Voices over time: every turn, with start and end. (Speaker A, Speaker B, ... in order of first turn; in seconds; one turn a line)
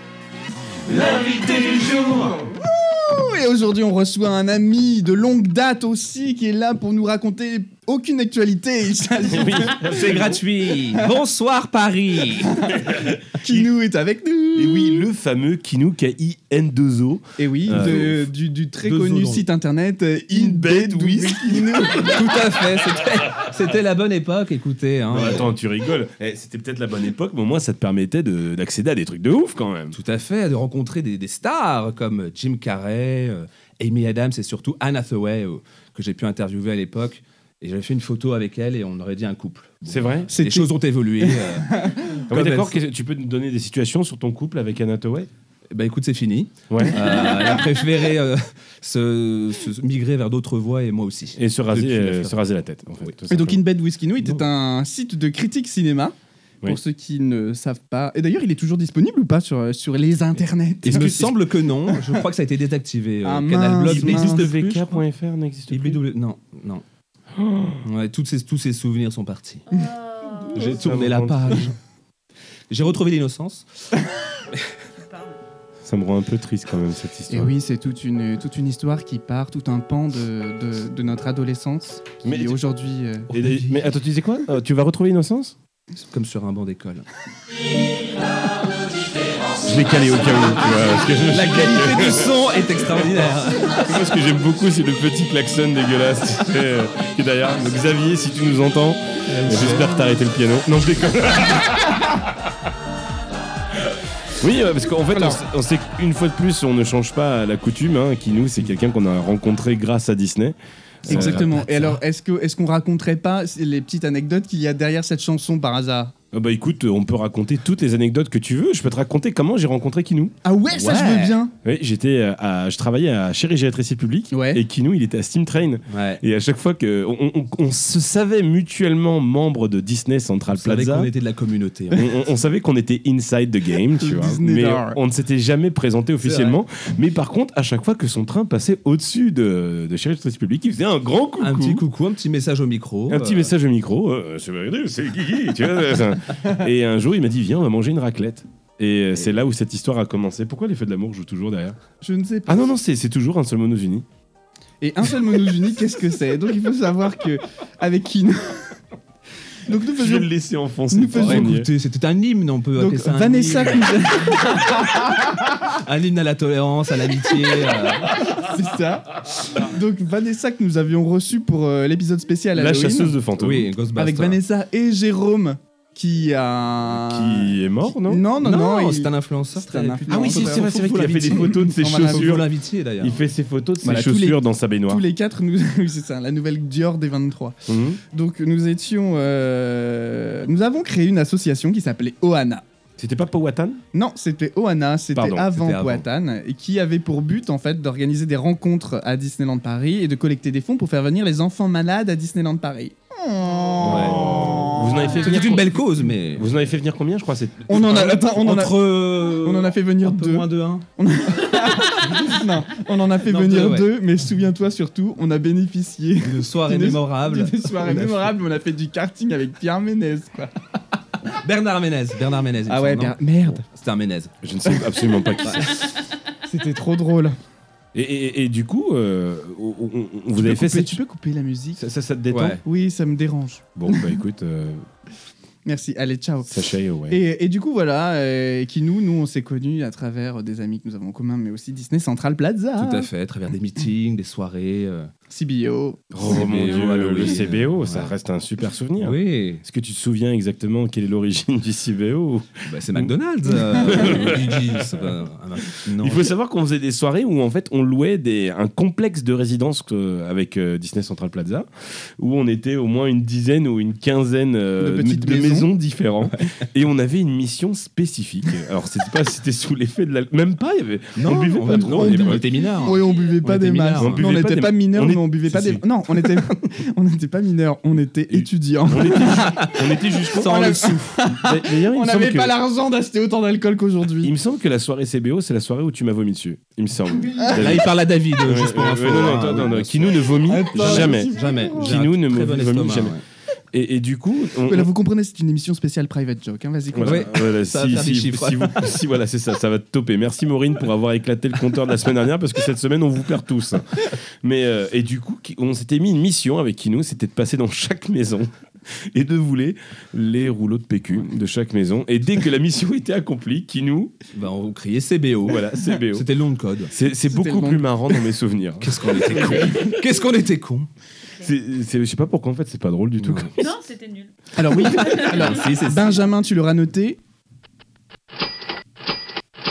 Speaker A: 0.9-2.4
Speaker B: 2.5-9.9
Speaker A: 9.2-10.4
Speaker C: 9.8-12.7
Speaker B: 12.4-15.1
Speaker A: 12.7-13.7
Speaker A: 14.5-18.2
Speaker B: 17.4-22.4
Speaker C: 17.7-18.0
Speaker C: 18.8-19.5
Speaker A: 20.3-22.6
Speaker C: 21.9-25.5
Speaker A: 25.1-29.9
Speaker C: 29.9-42.8
Speaker A: 39.9-40.3
Speaker B: 40.3-42.2
Speaker A: 42.3-45.3
Speaker C: 45.7-52.4
Speaker A: 46.7-47.5
Speaker A: 51.4-53.6
Speaker B: 53.3-62.2
Speaker C: 60.8-64.8
Speaker B: 63.2-64.8
Speaker A: 63.8-66.0
Speaker C: 65.7-66.8
Speaker A: 67.3-67.8
Speaker C: 67.8-69.6
Speaker D: 69.7-70.5
Speaker A: 70.5-71.7
Speaker C: 70.5-71.8
Speaker C: 72.7-73.7
Speaker D: 75.0-75.4
Speaker A: 75.8-77.5
Speaker B: 77.3-83.3
Speaker A: 82.2-82.6
Speaker A: 83.3-85.5
Speaker C: 83.3-83.9
Speaker C: 86.1-87.1
Speaker A: 89.6-92.3
Speaker C: 91.3-93.8
Speaker A: 93.6-102.3
Speaker C: 99.3-99.9
Speaker B: 99.5-99.9
Speaker A: 104.3-111.5
Speaker B: 105.1-105.4
Speaker C: 111.1-112.0
Speaker B: 111.1-116.1
Speaker A: 116.3-120.3
Speaker B: 120.4-121.5
Speaker C: 120.7-121.4
Speaker A: 121.6-131.1
Speaker B: 124.3-124.6
Speaker C: 125.9-126.2
Speaker C: 130.5-132.0
Speaker A: 131.9-141.8
Speaker B: 133.9-135.0
Speaker C: 136.2-136.6
Speaker C: 141.4-143.5
Speaker A: 143.1-151.8
Speaker B: 152.0-152.6
Speaker A: 152.4-154.1
Speaker B: 154.8-158.8
Speaker B: 159.7-160.3
Speaker A: 159.9-161.7
Speaker B: 160.9-161.5
Speaker C: 161.1-163.9
Speaker B: 162.8-165.5
Speaker C: 165.6-168.2
Speaker B: 168.0-173.2
Speaker A: 172.5-173.7
Speaker C: 173.4-174.4
Speaker B: 173.9-180.8
Speaker A: 176.9-178.2
Speaker C: 178.4-183.2
Speaker A: 180.1-182.5
Speaker B: 181.3-182.4
Speaker A: 183.0-185.0
Speaker B: 183.8-192.6
Speaker A: 187.7-188.0
Speaker A: 193.0-193.8
Speaker B: 193.9-205.3
Speaker A: 195.2-195.5
Speaker C: 195.5-196.0
Speaker A: 203.8-208.2
Speaker C: 203.8-204.6
Speaker C: 205.2-206.5
Speaker B: 207.7-220.5
Speaker C: 207.7-210.8
Speaker C: 213.2-213.9
Speaker C: 216.2-218.3
Speaker C: 221.3-224.3
Speaker B: 222.7-223.6
Speaker A: 224.4-225.9
Speaker C: 225.4-225.7
Speaker B: 226.5-227.4
Speaker A: 227.9-231.0
Speaker B: 230.4-231.8
Speaker A: 231.8-232.6
Speaker C: 232.3-232.6
Speaker B: 232.6-234.2
Speaker A: 233.8-234.9
Speaker B: 235.6-236.5
Speaker A: 236.5-237.2
Speaker B: 237.1-243.1
Speaker C: 242.8-245.1
Speaker B: 245.3-246.3
Speaker A: 246.1-253.1
Speaker C: 246.2-248.1
Speaker C: 249.0-249.6
Speaker C: 252.7-256.3
Speaker A: 253.6-255.1
Speaker A: 255.9-272.5
Speaker B: 264.8-265.7
Speaker C: 271.1-274.3
Speaker B: 271.5-284.3
Speaker D: 272.9-273.3
Speaker A: 274.0-275.8
Speaker A: 278.3-280.8
Speaker C: 279.1-281.1
Speaker A: 281.3-282.5
Speaker A: 284.2-293.2
Speaker B: 287.3-287.7
Speaker C: 287.5-293.2
Speaker B: 290.4-292.0
Speaker A: 293.7-294.9
Speaker B: 294.6-297.4
Speaker A: 296.9-314.2
Speaker C: 297.0-298.9
Speaker C: 314.3-316.9
Speaker A: 315.4-316.3
Speaker A: 316.9-320.0
Speaker B: 317.2-318.2
Speaker C: 318.8-320.9
Speaker B: 319.3-319.9
Speaker A: 321.4-323.7
Speaker C: 323.2-323.5
Speaker D: 323.6-325.5
Speaker B: 324.6-327.2
Speaker C: 325.0-326.2